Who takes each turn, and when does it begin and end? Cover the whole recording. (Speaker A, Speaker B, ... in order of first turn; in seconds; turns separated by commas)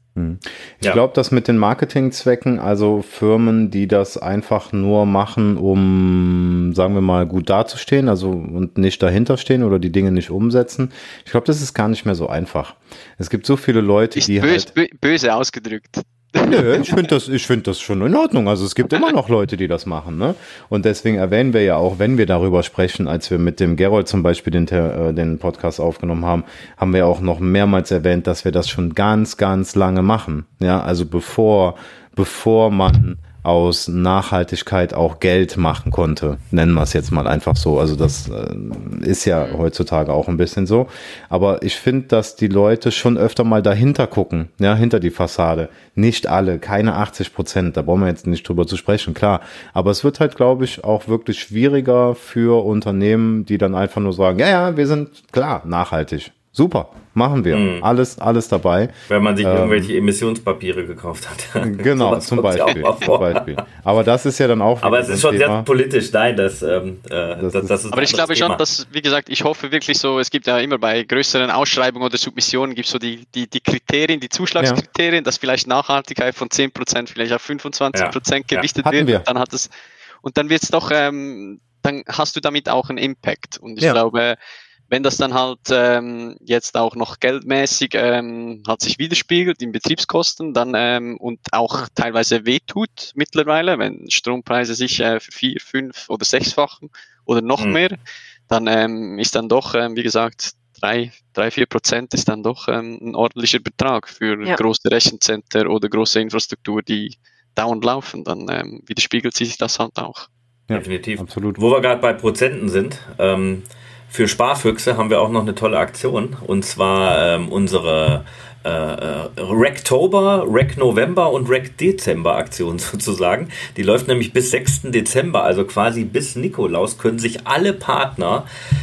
Speaker A: 0.1-14.7, Speaker B: 14.2-17.0, Speaker A: 16.4-59.9, Speaker C: 57.5-57.9, Speaker C: 59.1-63.6, Speaker A: 61.6-65.7, Speaker C: 64.8-68.6, Speaker A: 67.4-67.8, Speaker B: 67.9-79.7, Speaker C: 77.9-78.7, Speaker A: 78.8-79.2, Speaker B: 80.2-84.3, Speaker B: 84.9-98.0, Speaker B: 98.5-110.3, Speaker A: 110.7-111.6, Speaker C: 110.7-128.5